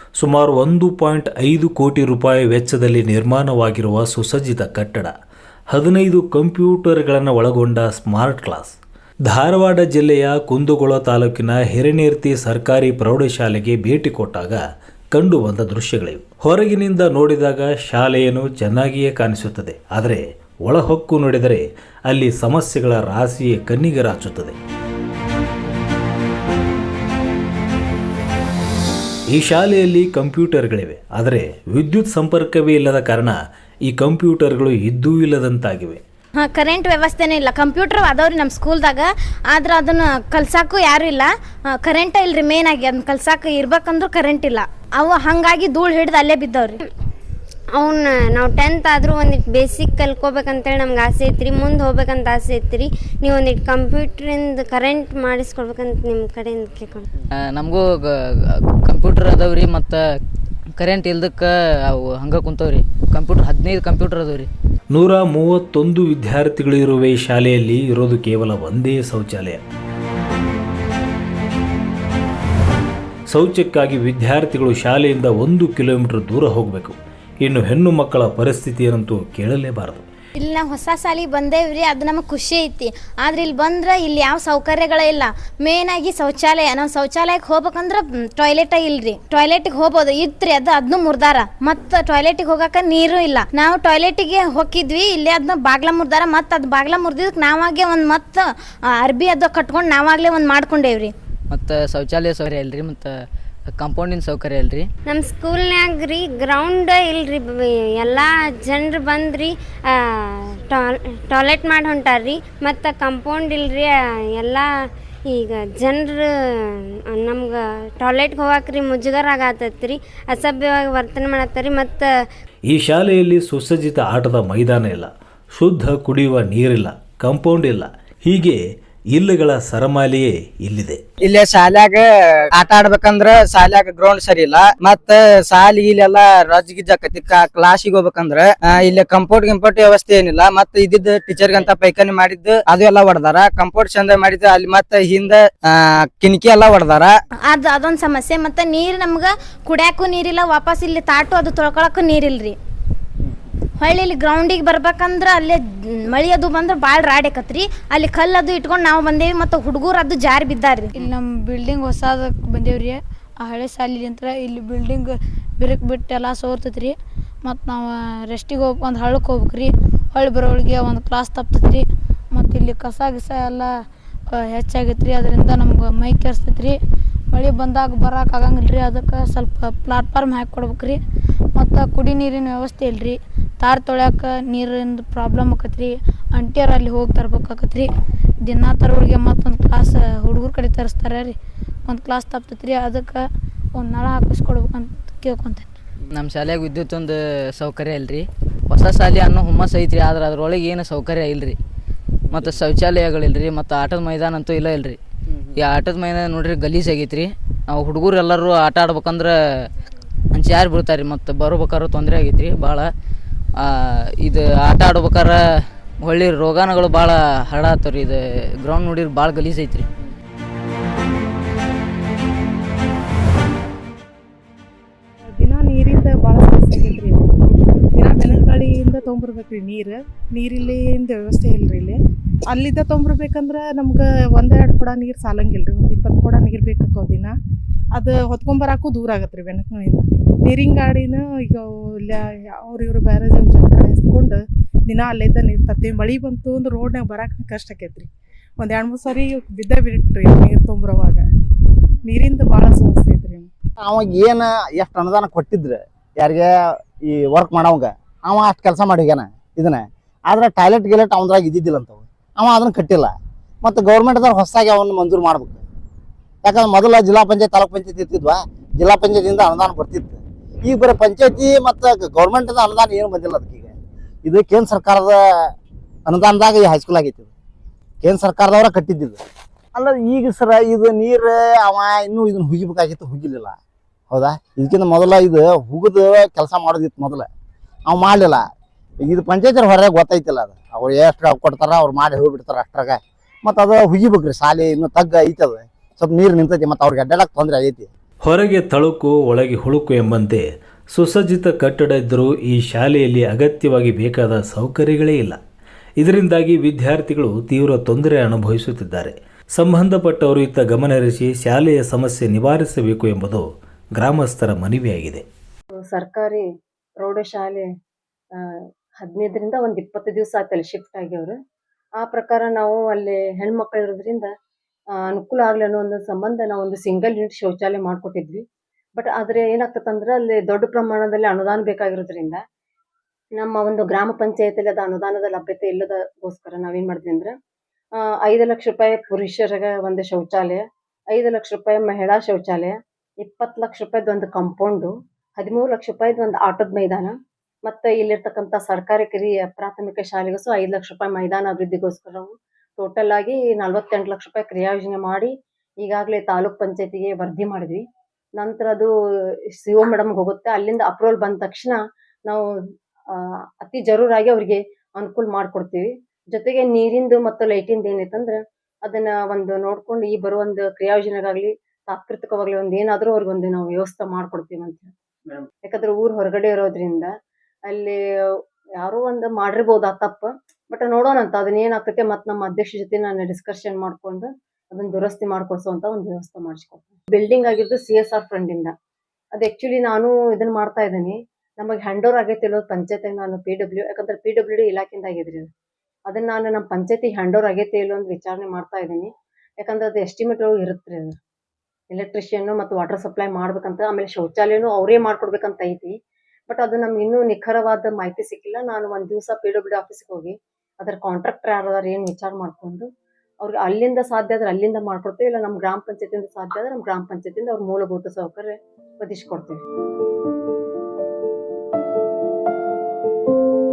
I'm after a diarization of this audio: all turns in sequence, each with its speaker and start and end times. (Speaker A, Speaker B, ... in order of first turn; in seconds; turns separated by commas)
Speaker A: 0.2-5.1, Speaker A: 5.7-14.6, Speaker A: 15.1-24.6, Speaker A: 29.3-36.0, Speaker B: 36.4-46.8, Speaker C: 47.8-57.0, Speaker D: 57.4-60.0, Speaker D: 60.8-64.5, Speaker A: 64.9-69.6, Speaker A: 73.3-80.0, Speaker B: 80.4-98.5, Speaker B: 99.0-101.1, Speaker D: 101.5-103.2, Speaker D: 103.7-104.9, Speaker C: 105.1-114.7, Speaker C: 115.3-116.3, Speaker C: 117.1-122.1, Speaker A: 122.7-128.6, Speaker A: 129.1-131.0, Speaker E: 131.2-147.2, Speaker B: 147.5-152.6, Speaker B: 153.8-160.9, Speaker F: 160.9-173.7, Speaker F: 174.3-176.8, Speaker F: 177.3-181.0, Speaker F: 181.6-187.9, Speaker F: 188.4-195.7, Speaker D: 196.1-201.6, Speaker D: 202.3-205.0, Speaker D: 205.6-209.7, Speaker D: 210.3-212.9, Speaker D: 213.6-219.9, Speaker G: 225.3-227.3, Speaker G: 227.9-237.4, Speaker G: 237.9-251.2, Speaker G: 252.0-253.5, Speaker H: 253.8-256.5, Speaker H: 257.0-263.1, Speaker H: 263.6-265.6, Speaker H: 266.4-273.7, Speaker H: 274.2-275.2, Speaker H: 276.1-277.3, Speaker H: 278.0-279.2, Speaker H: 279.8-283.6, Speaker H: 284.1-287.3, Speaker H: 287.9-288.4, Speaker H: 289.0-297.9, Speaker A: 298.2-305.4, Speaker A: 306.0-313.4, Speaker A: 314.0-315.2, Speaker I: 315.9-316.4, Speaker I: 317.0-317.7, Speaker I: 319.0-321.4, Speaker I: 322.0-324.3, Speaker I: 325.0-328.4, Speaker I: 329.0-332.4, Speaker I: 333.4-337.3, Speaker I: 338.2-340.6, Speaker I: 341.1-347.1, Speaker I: 347.7-357.8, Speaker I: 358.4-358.9, Speaker I: 359.6-362.4, Speaker I: 363.1-374.9, Speaker I: 375.6-377.1, Speaker I: 377.7-388.7, Speaker I: 389.4-395.5, Speaker I: 396.1-401.1, Speaker I: 401.9-405.9, Speaker I: 406.5-412.9, Speaker I: 413.4-419.6